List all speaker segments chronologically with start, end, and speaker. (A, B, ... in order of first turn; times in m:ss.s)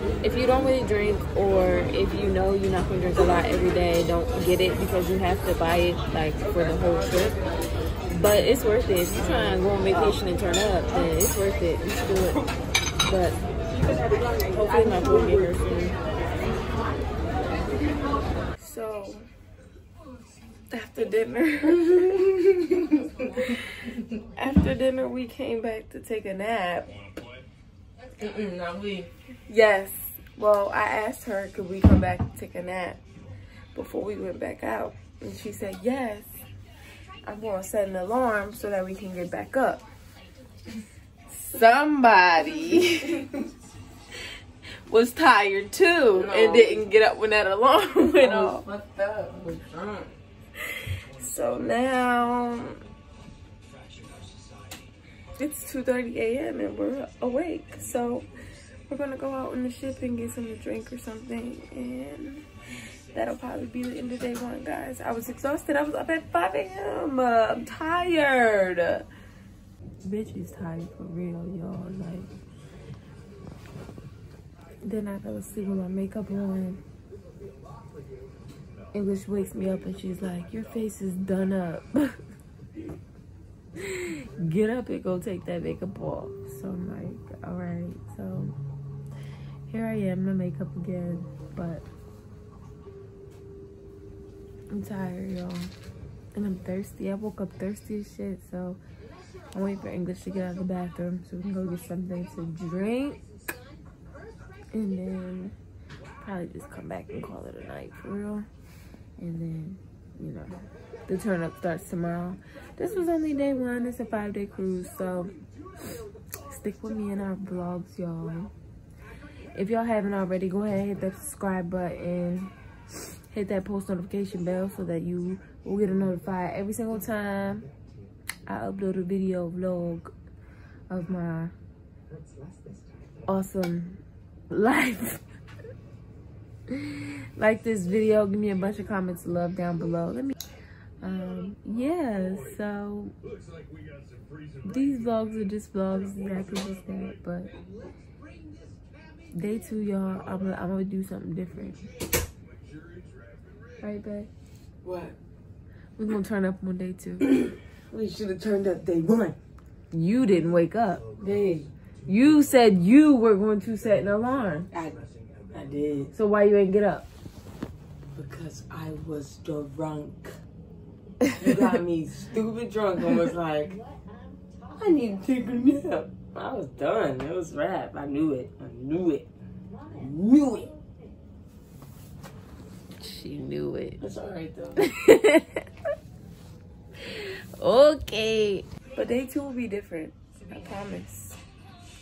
0:00.2-0:07.4 A
0:08.1-0:12.4 A
0:13.1-0:13.4 A
0:14.4-0:16.0 A
0:18.6-0:19.3 A
0:20.7-0:22.2 A
0:21.8-0:23.0 B
0:24.4-0:27.0 A
0:28.2-0:29.1 B
0:29.5-0:33.0 A
0:33.7-0:36.4 A
0:37.2-0:39.8 A
0:41.3-0:43.3 A
0:42.7-0:43.3 B
0:44.9-0:48.6 A
0:46.1-0:46.9 B
0:48.2-0:50.1 B
0:51.2-0:52.8 A
0:55.4-0:58.3 A
0:58.9-1:02.4 A
1:03.1-1:09.1 A
1:10.0-1:12.3 A
1:14.8-1:16.8 A
1:18.9-1:22.1 A
1:23.9-1:28.5 A
1:29.7-1:31.8 A
1:34.7-1:35.7 A
1:36.3-1:38.8 A
1:39.5-1:43.2 A
1:44.7-1:45.6 A
1:46.2-1:48.5 A
1:49.2-1:50.5 A
1:51.1-1:55.3 A
1:56.5-1:58.5 A
1:59.6-2:02.5 A
2:03.3-2:07.7 A
2:08.5-2:10.1 A
2:10.9-2:11.5 A
2:13.3-2:15.2 A
2:16.7-2:20.4 A
2:21.0-2:23.2 A
2:24.6-2:27.6 A
2:29.3-2:31.8 A
2:33.8-2:34.3 A
2:34.8-2:35.2 B
2:36.0-2:37.3 A
2:37.2-2:39.4 B
2:39.9-2:41.0 A
2:41.2-2:41.7 B
2:42.1-2:44.7 A
2:44.7-2:46.1 B
2:46.1-2:47.1 A
2:48.2-2:50.4 B
2:51.4-2:53.8 B
2:54.8-2:59.3 B
2:59.9-3:00.7 B
3:03.0-3:04.0 A
3:04.0-3:04.8 B
3:04.8-3:05.6 A
3:07.1-3:11.4 A